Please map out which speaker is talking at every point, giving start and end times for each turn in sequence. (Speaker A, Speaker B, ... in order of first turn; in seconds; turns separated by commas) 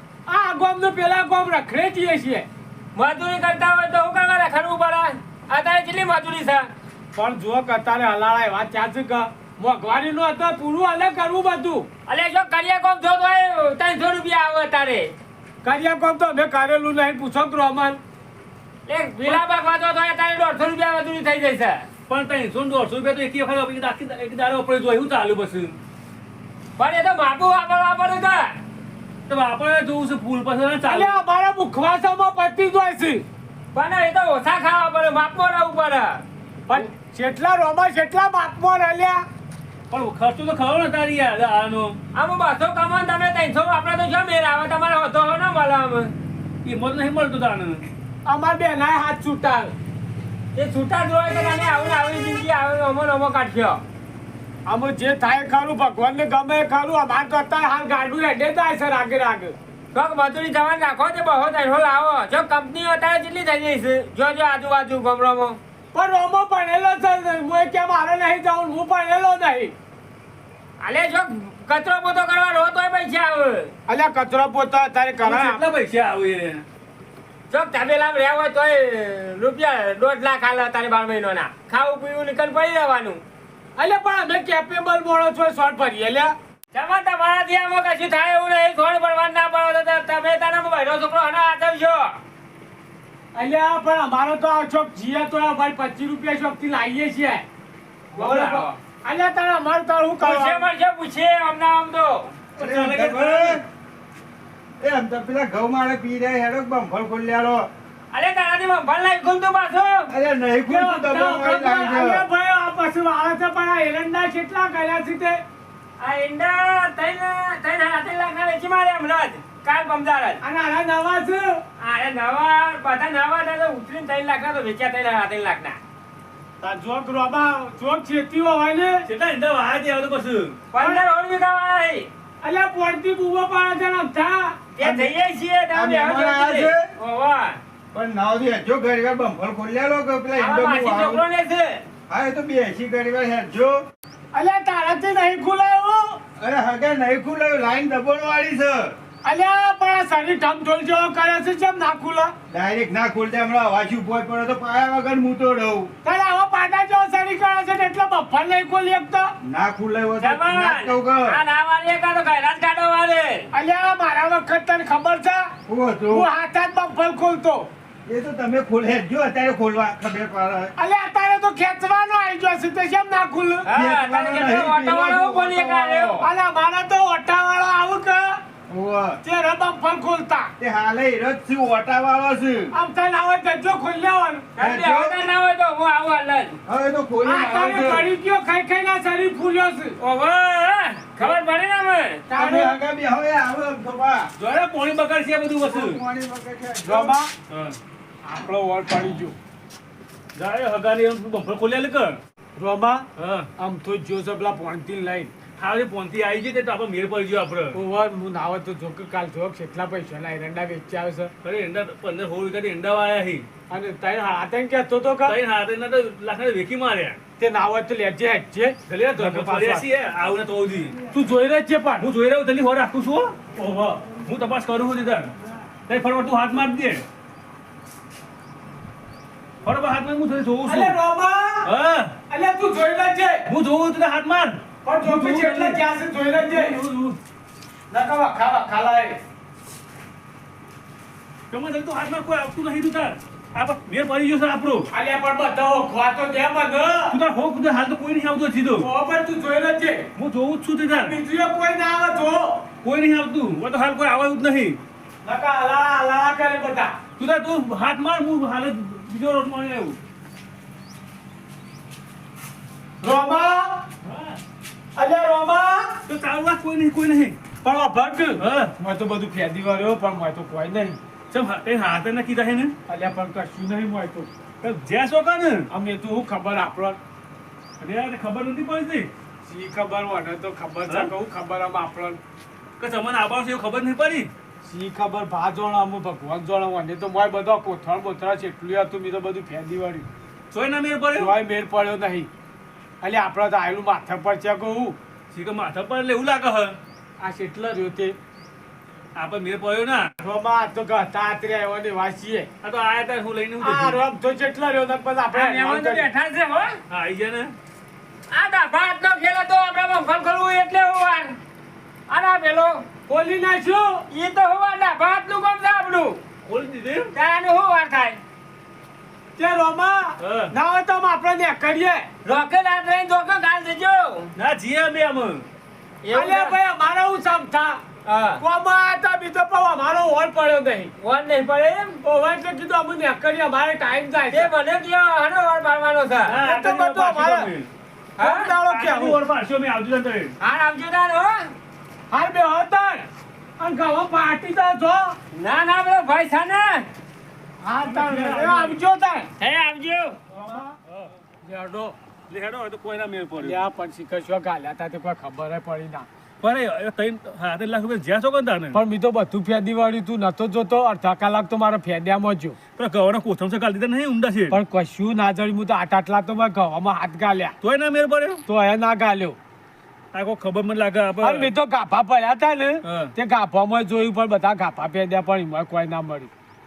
Speaker A: 0.3-2.5, Speaker B: 3.0-6.7, Speaker A: 7.2-11.9, Speaker B: 12.1-15.1, Speaker A: 15.6-18.0, Speaker B: 18.9-21.9, Speaker C: 22.1-25.8, Speaker B: 26.8-28.6, Speaker C: 29.3-31.1, Speaker A: 30.9-33.2, Speaker B: 33.7-36.2, Speaker A: 36.7-39.2, Speaker C: 39.9-42.0, Speaker B: 42.1-46.1, Speaker C: 46.6-47.9, Speaker A: 48.3-49.7, Speaker B: 50.5-53.8, Speaker A: 54.7-59.5, Speaker B: 59.9-65.6, Speaker A: 65.9-69.7, Speaker B: 70.8-73.7, Speaker A: 73.9-75.6, Speaker C: 75.2-76.7, Speaker B: 77.5-83.2, Speaker A: 83.8-86.3, Speaker B: 86.7-92.2, Speaker A: 93.3-97.4, Speaker B: 98.1-98.7, Speaker A: 98.2-100.7, Speaker B: 100.2-102.3, Speaker C: 102.6-103.6, Speaker D: 102.6-103.6, Speaker D: 104.8-107.7, Speaker B: 108.1-110.1, Speaker D: 110.1-112.2, Speaker A: 110.7-115.4, Speaker B: 116.0-120.4, Speaker A: 120.4-121.6, Speaker B: 121.8-125.8, Speaker A: 126.6-129.1, Speaker C: 129.1-130.6, Speaker B: 130.7-132.1, Speaker A: 132.4-134.6, Speaker B: 134.8-137.6, Speaker D: 134.8-135.1, Speaker D: 135.7-136.8, Speaker D: 137.9-141.2, Speaker B: 140.4-141.8, Speaker D: 142.1-143.8, Speaker A: 144.3-146.2, Speaker D: 146.4-148.9, Speaker A: 149.2-152.3, Speaker D: 152.5-155.9, Speaker A: 156.1-159.3, Speaker D: 159.4-161.4, Speaker B: 160.2-163.5, Speaker A: 163.5-165.5, Speaker D: 165.7-166.3, Speaker A: 166.1-167.7, Speaker D: 168.1-170.8, Speaker A: 170.8-173.7, Speaker B: 173.7-176.3, Speaker D: 173.7-176.2, Speaker A: 176.2-178.4, Speaker D: 178.7-179.2, Speaker A: 179.2-180.5, Speaker D: 180.6-182.7, Speaker A: 182.7-184.5, Speaker B: 184.6-186.6, Speaker D: 184.6-185.3, Speaker D: 186.7-188.1, Speaker A: 187.2-190.0, Speaker B: 190.0-192.3, Speaker A: 192.3-192.8, Speaker D: 192.3-194.3, Speaker C: 194.4-196.0, Speaker D: 195.6-197.2, Speaker A: 196.8-197.3, Speaker C: 197.5-197.8, Speaker A: 198.2-199.4, Speaker C: 200.3-202.2, Speaker A: 202.6-205.3, Speaker C: 203.2-203.5, Speaker C: 205.6-207.8, Speaker A: 207.7-211.3, Speaker C: 211.4-213.5, Speaker A: 213.7-215.3, Speaker C: 215.2-217.2, Speaker A: 217.4-219.8, Speaker C: 218.9-221.0, Speaker A: 221.1-222.1, Speaker C: 222.0-223.4, Speaker A: 223.6-224.0, Speaker C: 224.1-225.3, Speaker C: 225.9-227.1, Speaker C: 229.7-230.9, Speaker A: 230.7-231.7, Speaker C: 231.7-232.2, Speaker A: 232.3-233.5, Speaker C: 233.5-235.8, Speaker A: 234.8-236.8, Speaker C: 236.3-237.2, Speaker A: 237.9-239.2, Speaker C: 241.5-244.9, Speaker A: 244.9-247.2, Speaker C: 247.1-248.9, Speaker A: 248.8-250.1, Speaker C: 250.2-251.2, Speaker A: 250.9-252.7, Speaker C: 252.8-254.8, Speaker A: 255.2-257.0, Speaker C: 257.2-260.0, Speaker A: 263.0-263.8, Speaker C: 264.1-264.4, Speaker A: 265.0-266.0, Speaker C: 266.1-267.4, Speaker A: 267.6-271.0, Speaker C: 268.4-268.7, Speaker C: 271.3-272.7, Speaker A: 272.9-274.3, Speaker C: 274.6-275.7, Speaker A: 275.7-277.0, Speaker C: 277.8-279.1, Speaker A: 279.4-282.2, Speaker C: 282.8-284.3, Speaker A: 284.6-290.1, Speaker C: 290.5-291.3, Speaker A: 291.2-292.3, Speaker A: 293.0-295.0, Speaker C: 295.3-296.8, Speaker A: 297.2-298.2, Speaker C: 299.1-300.1, Speaker A: 300.2-302.5, Speaker C: 302.6-304.0, Speaker A: 303.6-306.1, Speaker B: 305.3-306.8, Speaker C: 306.9-307.6, Speaker B: 308.3-311.3, Speaker B: 312.1-312.9, Speaker A: 313.1-314.0, Speaker B: 314.1-316.2, Speaker C: 316.5-317.1, Speaker B: 317.1-318.2, Speaker A: 319.4-322.1, Speaker C: 320.2-320.5, Speaker B: 322.2-324.3, Speaker C: 324.4-325.5, Speaker B: 326.0-326.6, Speaker A: 326.1-327.8, Speaker B: 328.1-328.4, Speaker A: 328.4-330.9, Speaker B: 331.0-332.0, Speaker A: 332.0-334.5, Speaker B: 334.3-336.4, Speaker C: 336.3-337.7, Speaker A: 336.4-337.5, Speaker B: 338.2-338.5, Speaker A: 338.2-339.2, Speaker C: 338.6-340.3, Speaker B: 340.4-341.5, Speaker A: 342.1-343.1, Speaker A: 343.6-345.2, Speaker B: 345.3-346.9, Speaker A: 347.6-349.3, Speaker C: 347.9-348.8, Speaker B: 349.4-350.2, Speaker A: 350.5-350.7, Speaker A: 351.4-352.0, Speaker C: 352.3-353.6, Speaker A: 353.4-356.1, Speaker C: 356.4-358.8, Speaker A: 358.7-362.6, Speaker C: 362.8-364.6, Speaker A: 364.5-367.6, Speaker C: 367.6-368.4, Speaker A: 368.5-369.4, Speaker C: 370.1-371.5, Speaker A: 371.2-376.3, Speaker C: 372.9-373.1